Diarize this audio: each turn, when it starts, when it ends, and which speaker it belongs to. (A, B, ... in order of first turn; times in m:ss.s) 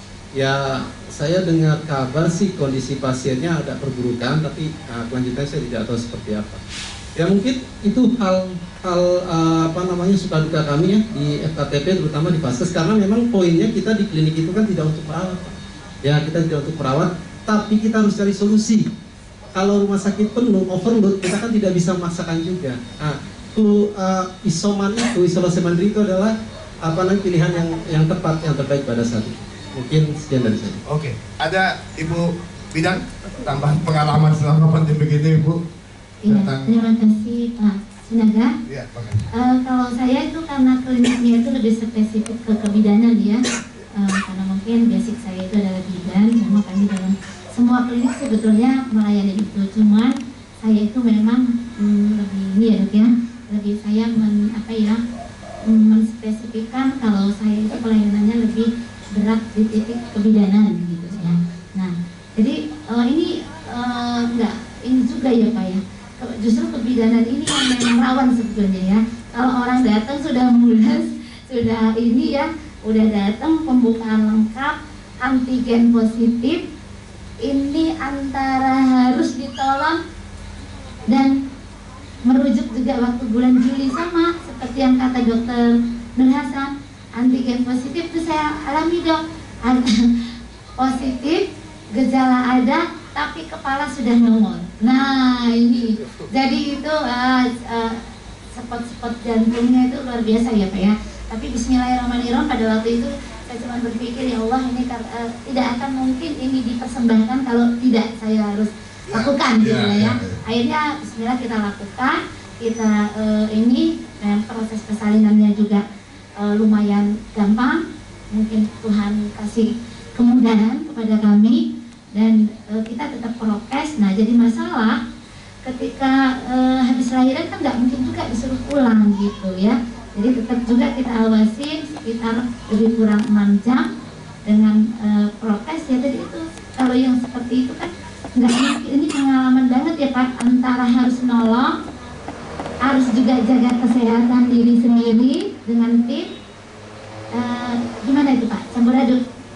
0:00.3-0:06.6 A
0:07.2-0:18.9 A
0:19.5-0:30.8 A
0:30.9-0:35.6 B
0:36.2-0:36.8 B
0:36.2-0:38.6 C
0:38.7-0:39.3 B
0:39.3-0:55.0 C
0:55.6-1:16.6 C
1:17.4-1:20.0 C
1:21.1-1:21.4 C
1:22.2-1:30.2 C
1:30.8-1:38.0 C
1:38.6-1:55.8 C
1:49.1-1:50.4 B
1:56.4-2:05.0 C
2:05.6-2:13.9 C
2:14.4-2:21.8 C
2:22.8-2:26.3 C
2:27.3-2:29.2 C